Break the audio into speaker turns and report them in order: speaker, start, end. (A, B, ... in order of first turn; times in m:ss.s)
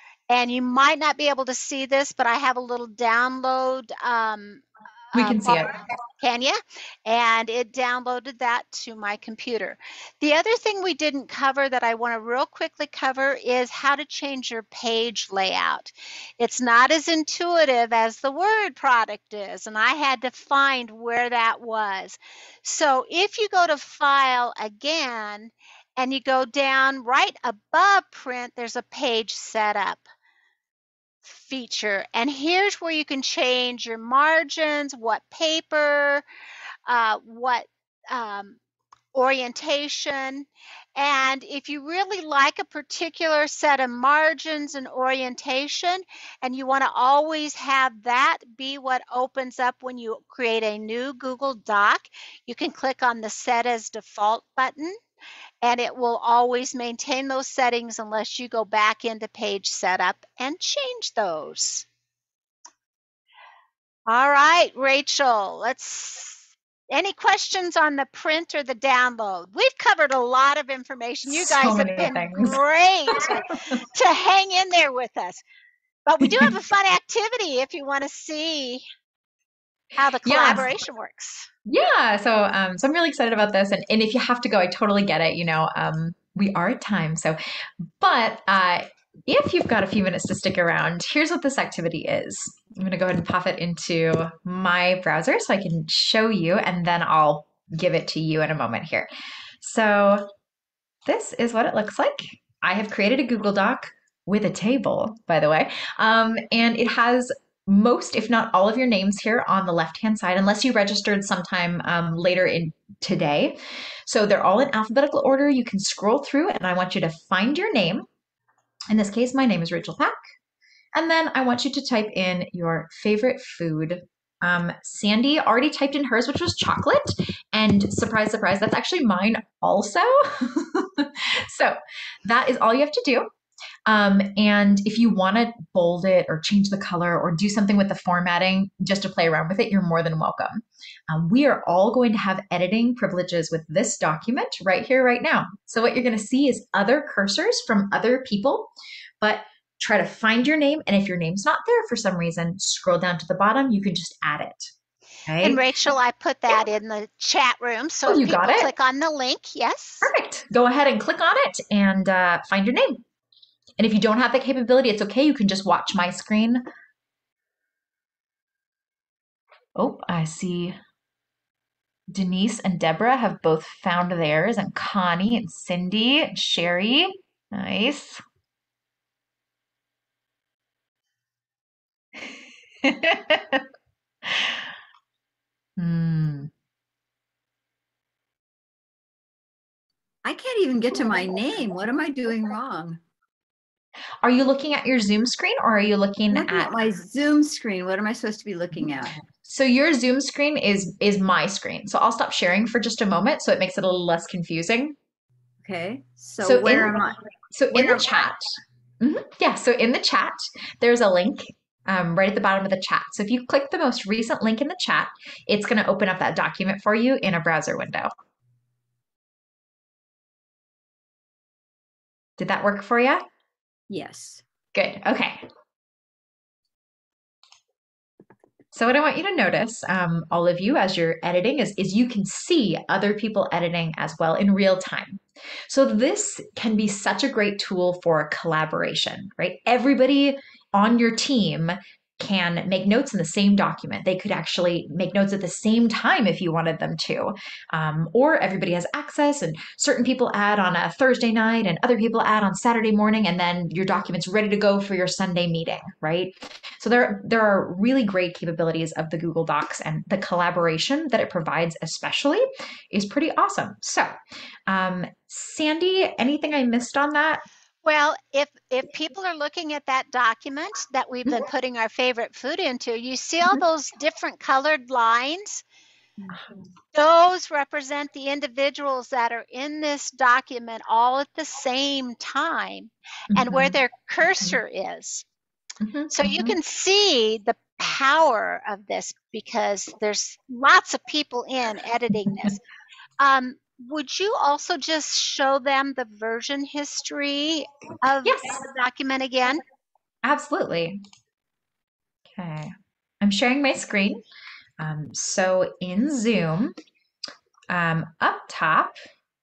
0:00.3-0:30.0 A
0:05.1-0:05.8 B
0:31.2-0:36.2 A
0:36.9-0:38.6 A
0:39.1-0:40.5 A
0:41.0-0:55.0 A
0:55.6-1:01.9 A
1:04.1-1:15.4 A
1:11.2-1:12.6 B
1:13.2-1:13.8 B
1:16.1-1:18.8 A
1:16.2-1:16.5 B
1:20.0-1:21.5 A
1:20.2-1:20.7 B
1:21.7-1:27.4 B
1:28.0-1:39.1 B
1:39.6-1:40.3 B
1:41.1-1:58.1 B
1:58.9-2:00.2 B
2:01.0-2:13.3 B
2:13.9-2:34.7 B
2:35.3-2:35.6 B
2:35.4-2:40.1 A
2:38.1-2:38.7 B
2:40.0-2:43.0 B
2:43.8-2:46.6 B
2:49.8-2:50.8 B
2:52.1-2:58.2 B
3:02.8-3:03.6 B
3:04.3-3:04.7 B
3:05.8-3:06.5 B
3:10.2-3:13.0 C
3:14.2-3:16.7 B
3:16.3-3:19.2 C
3:19.4-3:25.0 B
3:25.6-3:27.2 C
3:26.4-3:27.0 B
3:27.5-3:28.4 B
3:27.7-3:28.2 C
3:29.0-3:38.1 B
3:42.4-3:43.2 B
3:43.9-3:44.4 C
3:44.8-3:45.4 B
3:48.7-4:24.1 B
4:24.7-4:27.4 B
4:27.8-4:35.6 A
4:36.3-4:36.7 B
4:36.9-4:45.2 A
4:43.3-4:43.8 B
4:45.8-4:46.6 B
4:46.1-4:52.6 A
4:53.2-4:59.6 A
4:58.2-4:58.6 B
5:00.2-5:01.0 B
5:02.3-5:04.2 B
5:04.8-5:06.8 B
5:07.7-5:09.0 B